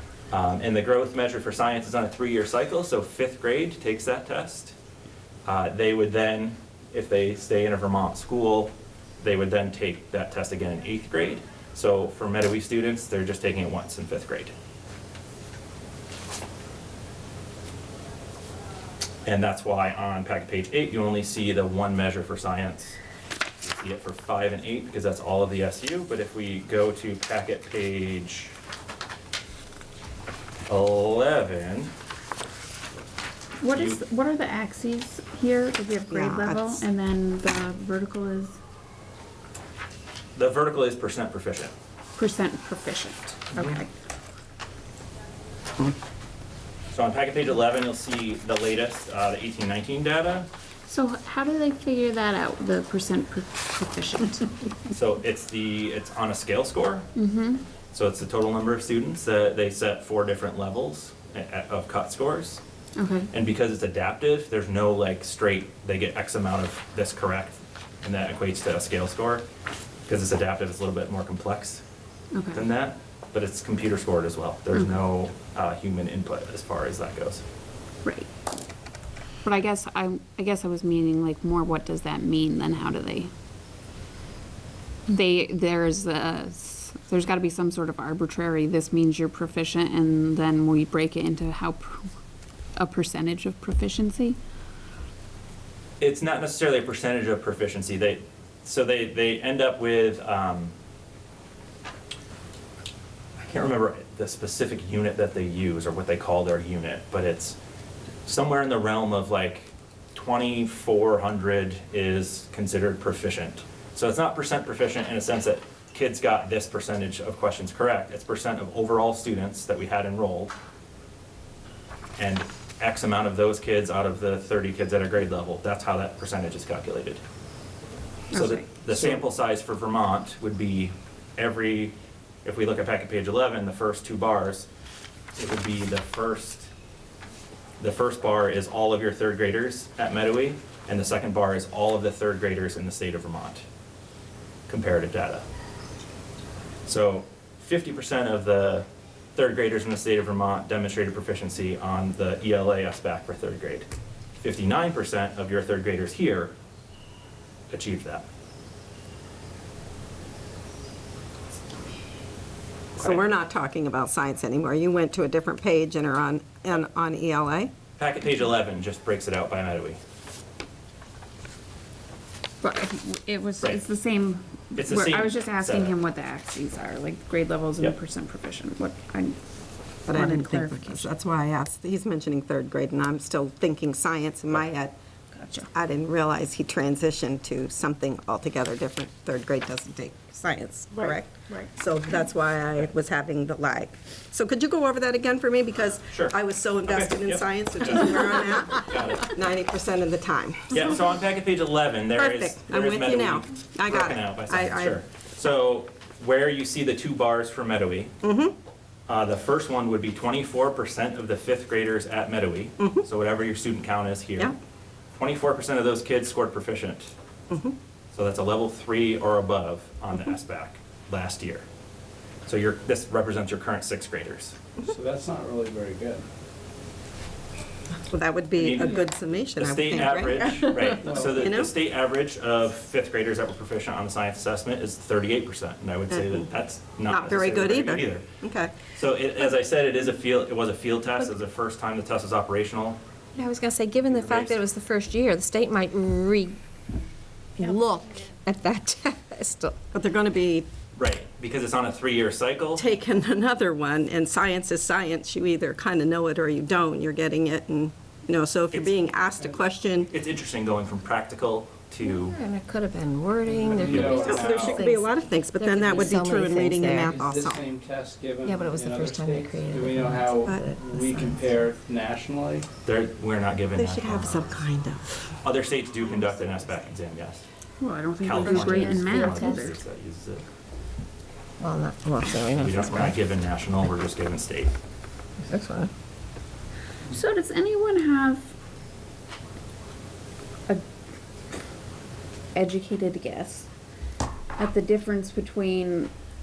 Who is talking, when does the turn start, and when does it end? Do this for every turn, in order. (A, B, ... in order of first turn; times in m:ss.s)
0:00.3-0:04.8 A
0:05.5-0:14.5 A
0:19.3-0:23.0 A
0:23.6-0:28.5 A
0:30.7-0:31.9 A
0:33.6-0:38.6 B
0:33.7-0:34.0 A
0:36.2-0:36.7 C
0:40.4-0:41.7 A
0:42.2-0:43.9 B
0:43.5-0:43.8 A
0:46.9-0:50.5 A
0:50.9-0:54.5 B
0:54.9-0:57.1 A
0:57.2-0:57.6 B
0:57.9-1:02.6 A
1:03.0-1:03.3 B
1:03.3-1:09.5 A
1:10.1-1:11.8 A
1:12.3-1:12.6 B
1:12.5-1:17.4 A
1:19.4-1:23.3 B
1:25.1-1:32.1 B
1:32.8-1:34.4 B
1:36.0-1:40.7 A
1:43.4-1:47.6 A
1:48.2-2:00.5 A
2:02.2-2:07.2 A
2:08.3-2:08.7 B
2:08.3-2:14.7 A
2:15.4-2:16.7 A
2:17.8-2:23.6 A
2:24.7-2:25.5 A
2:26.8-2:36.5 A
2:37.7-2:38.3 A
2:43.0-2:43.2 A
2:43.0-2:47.7 C
2:48.0-2:50.0 A
2:52.6-2:59.4 B
2:54.7-2:56.0 A
3:00.0-3:01.1 B
3:00.1-3:05.0 C
3:05.3-3:05.7 B
3:05.7-3:21.0 C
3:11.0-3:11.7 B
3:16.1-3:19.4 A
3:20.7-3:28.1 A
3:22.1-3:25.0 C
3:28.2-3:28.5 C
3:29.1-3:34.6 A
3:35.2-3:37.1 A
3:37.5-3:37.8 C
3:38.1-3:41.6 A
3:42.4-3:44.6 A
3:44.8-3:46.2 D
3:48.1-3:51.7 C
3:48.6-3:49.0 A
3:49.6-3:58.3 A
3:51.0-3:51.4 D
3:56.1-3:56.5 C
3:57.1-3:58.7 C
3:58.8-4:03.0 A
4:03.4-4:06.6 E
4:04.1-4:04.6 A
4:07.6-4:09.8 E
4:09.9-4:10.7 C
4:11.0-4:12.9 A
4:12.8-4:20.1 C
4:18.7-4:19.1 A
4:20.1-4:22.4 A
4:22.0-4:27.2 E
4:23.5-4:24.9 D
4:23.9-4:24.3 A
4:24.0-4:27.6 C
4:25.8-4:26.2 D
4:27.0-4:32.7 D
4:28.4-4:31.6 E
4:32.8-4:34.7 A
4:33.8-4:35.2 C
4:33.8-4:34.6 E
4:35.4-4:37.5 A
4:36.2-4:36.7 E
4:37.8-4:39.8 B
4:38.2-4:40.4 A
4:38.4-4:39.7 E
4:41.6-4:43.2 E
4:42.5-4:44.7 A
4:45.5-4:45.9 E
4:47.1-4:48.5 B
4:52.6-4:53.7 B
4:54.6-4:56.1 B